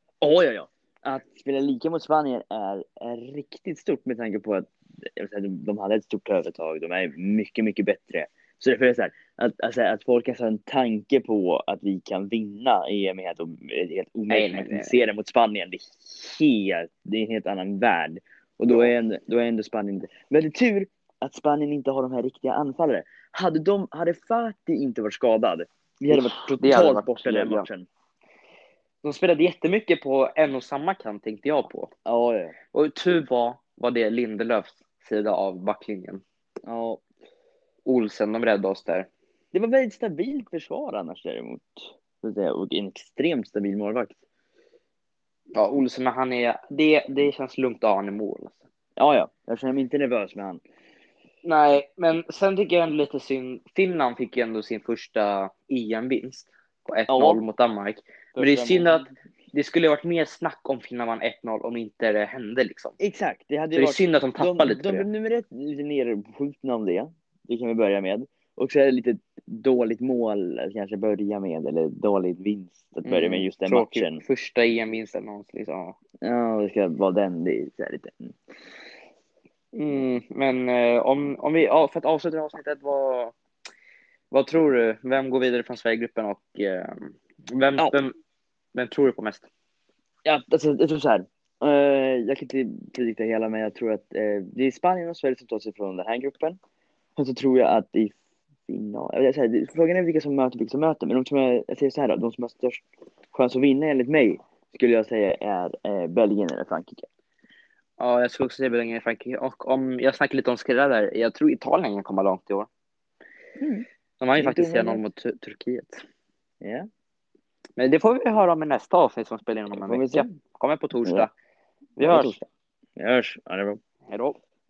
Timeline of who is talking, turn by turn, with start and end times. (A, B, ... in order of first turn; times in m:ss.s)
0:00.2-0:27.9 A
0:14.3-0:15.0 B
0:26.1-0:27.7 B
0:29.0-0:31.9 B
0:32.1-0:32.6 A
0:32.7-0:36.2 B
0:36.7-0:37.0 A
0:37.9-0:39.1 B
0:39.5-0:44.2 A
0:45.6-0:48.6 B
0:49.0-0:50.6 A
0:51.4-1:03.0 B
0:57.1-0:57.4 A
0:58.4-0:59.1 A
1:03.0-1:14.2 A
1:03.8-1:05.1 B
1:13.0-1:16.0 B
1:16.2-1:18.4 A
1:19.7-1:23.4 B
1:24.3-1:28.1 B
1:28.8-1:29.5 B
1:30.2-1:36.6 A
1:37.2-1:38.2 A
1:38.7-1:42.8 A
1:43.3-1:47.0 A
1:48.0-1:52.7 B
1:53.6-1:53.8 A
1:54.2-1:56.0 B
1:54.4-1:55.0 A
1:56.6-1:56.9 A
1:57.8-2:01.3 B
1:59.7-2:00.3 A
2:02.0-2:02.4 B
2:02.0-2:02.4 A
2:03.0-2:03.8 A
2:04.1-2:04.4 B